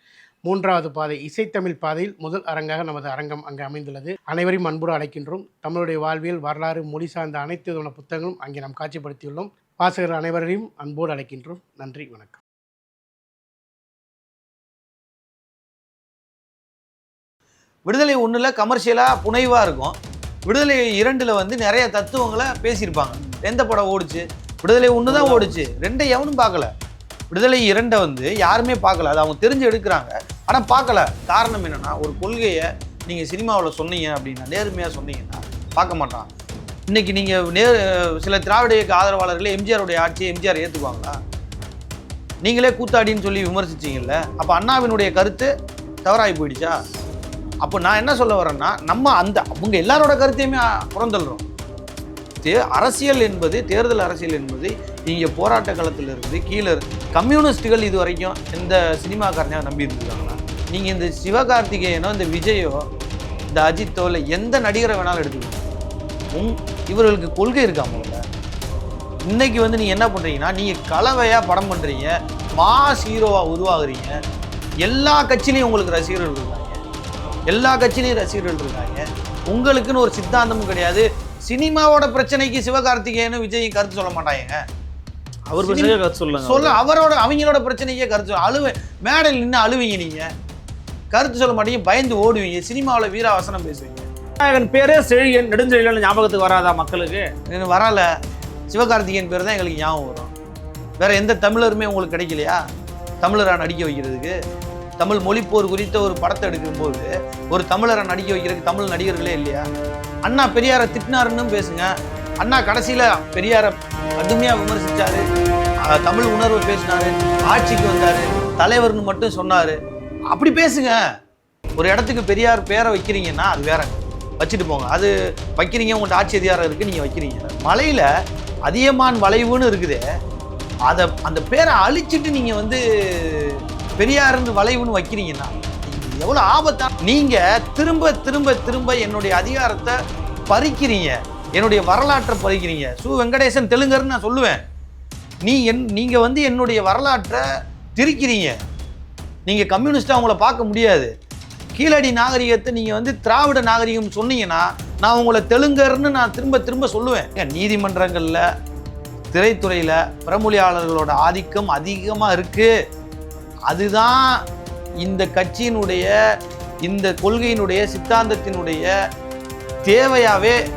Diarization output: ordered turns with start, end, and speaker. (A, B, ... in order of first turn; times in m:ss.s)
0:00.4-0:12.4 A
0:17.9-0:26.7 B
0:25.1-0:25.6 C
0:27.3-0:36.3 B
0:36.9-0:41.2 B
0:42.4-0:45.5 B
0:46.0-0:46.8 B
0:47.6-0:51.4 B
0:52.4-1:02.8 B
1:03.5-1:05.7 B
1:06.3-1:08.2 B
1:09.3-1:14.2 B
1:14.8-1:16.8 B
1:17.5-1:24.6 B
1:25.5-1:26.8 C
1:25.6-1:30.3 B
1:31.1-1:34.1 B
1:34.4-1:37.2 C
1:37.5-1:38.1 B
1:38.7-1:40.3 B
1:41.0-1:42.6 B
1:43.2-1:44.4 B
1:45.0-1:49.6 B
1:50.2-1:51.9 B
1:52.4-1:55.2 B
1:55.8-1:59.8 B
2:00.3-2:01.0 B
2:01.8-2:08.1 B
2:08.6-2:10.0 B
2:10.9-2:19.9 B
2:20.5-2:24.6 B
2:25.4-2:27.4 B
2:28.0-2:28.6 B
2:29.4-2:31.1 B
2:31.7-2:38.4 B
2:39.3-2:42.7 B
2:43.7-2:44.4 B
2:45.0-2:46.1 B
2:46.8-2:48.9 B
2:49.8-2:50.6 B